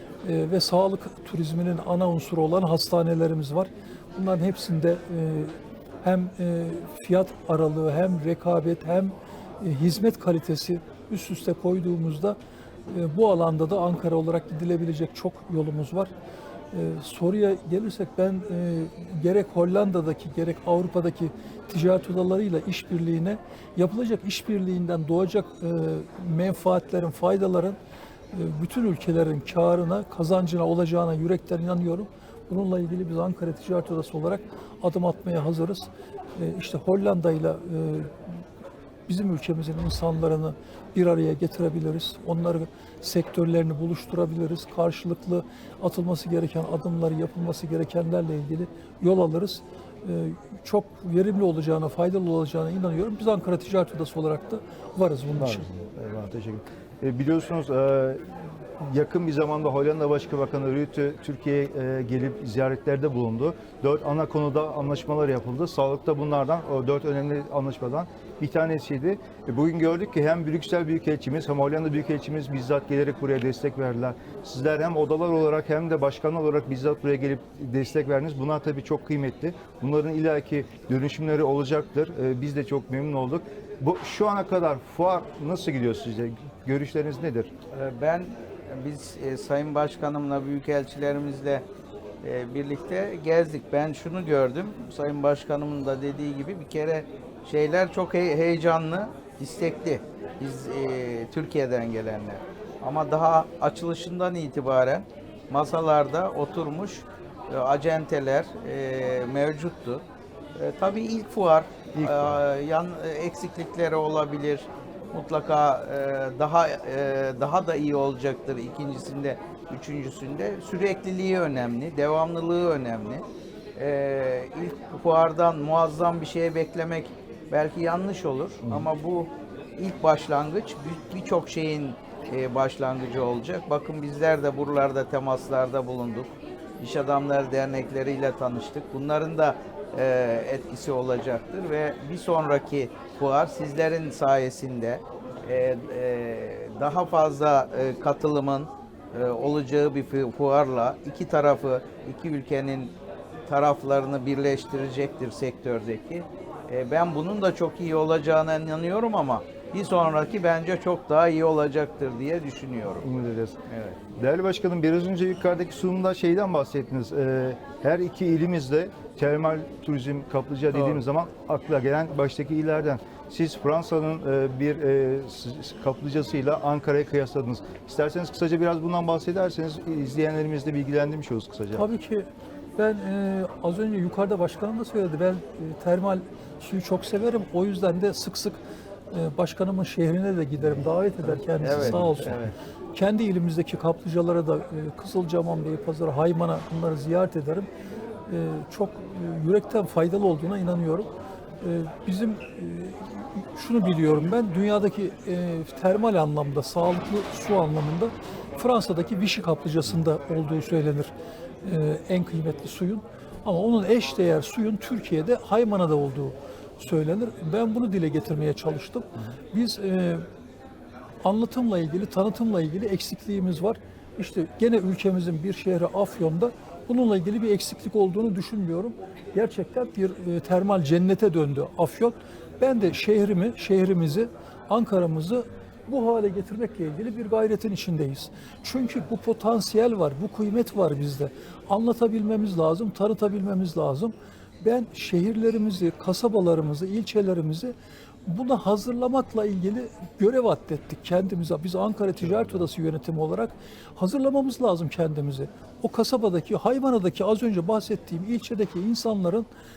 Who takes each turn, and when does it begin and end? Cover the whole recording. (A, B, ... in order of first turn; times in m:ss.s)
0:00.2-0:12.4 A
0:12.9-0:16.1 A
0:16.7-0:27.8 A
0:28.3-0:38.4 A
0:39.1-0:55.7 A
0:55.4-1:27.5 B
1:27.7-1:31.6 C
1:32.2-1:50.0 C
1:50.5-2:03.2 C
1:51.9-1:52.4 B
2:03.8-2:32.9 C
2:08.6-2:08.9 B
2:33.5-2:43.0 C
2:43.0-2:43.6 B
2:43.7-2:44.0 C
2:44.1-3:01.9 B
2:50.7-2:51.0 C
3:01.7-3:12.4 A
3:11.2-3:12.5 B
3:11.6-3:12.5 C
3:12.9-3:17.7 A
3:18.3-3:40.2 A
3:41.2-4:07.7 A
4:08.2-4:19.5 A
4:12.2-4:12.6 B